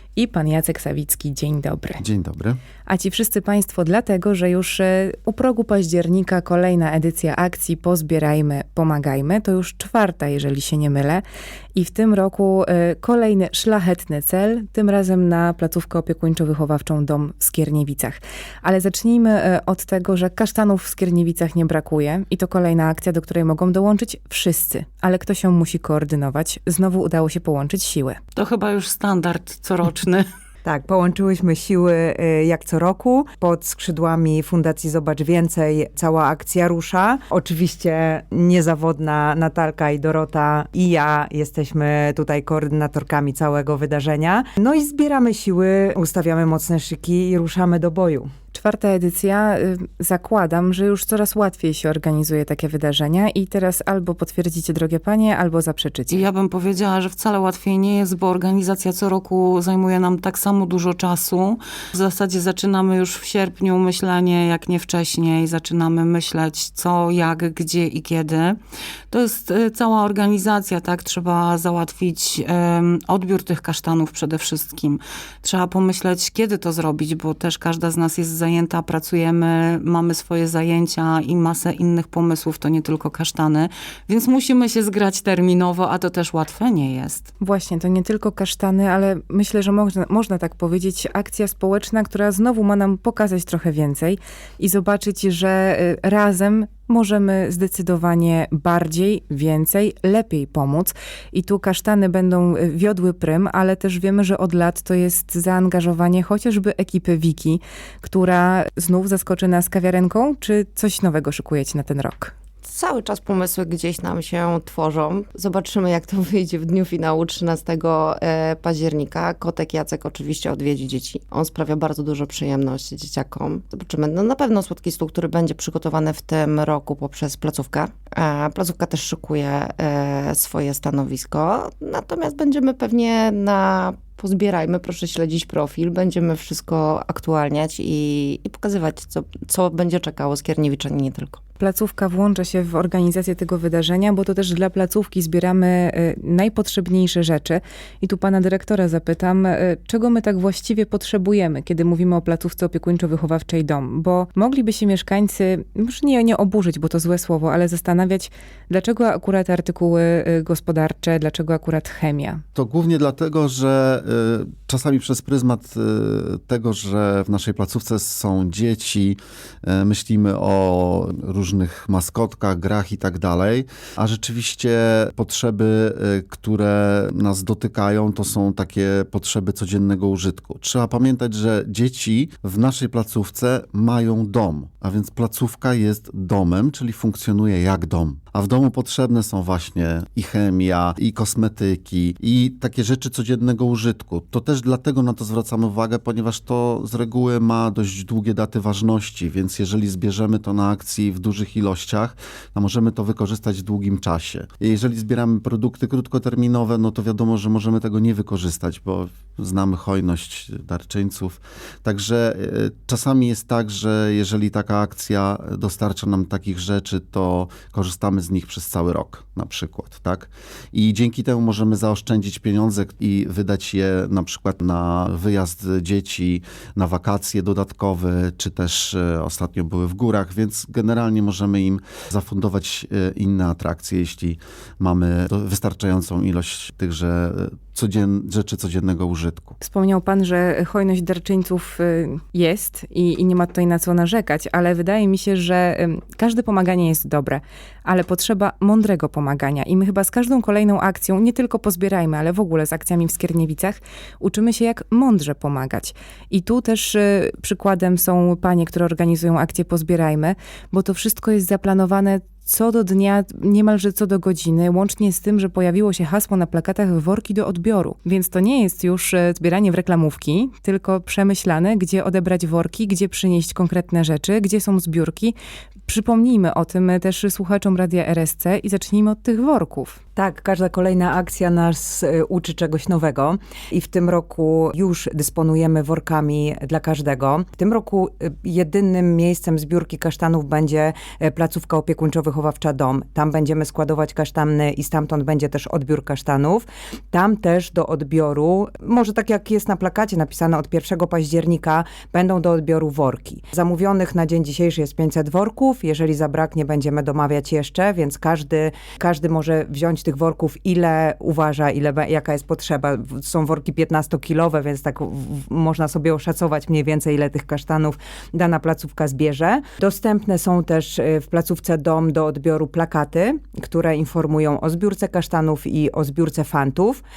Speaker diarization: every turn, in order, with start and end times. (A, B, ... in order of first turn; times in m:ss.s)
0:00.2-0:02.0 A
0:02.0-0:02.6 B
0:02.9-0:11.2 A
0:11.8-0:28.2 A
0:28.4-0:30.3 C
0:30.6-0:48.3 D
0:48.5-0:56.3 A
0:56.1-1:08.6 C
1:09.1-1:27.3 C
1:27.4-1:52.3 A
1:52.6-2:21.4 E
2:21.6-2:42.4 A
2:42.6-3:59.6 B
3:59.6-4:35.4 A
4:35.9-4:40.0 A
4:40.2-5:27.0 D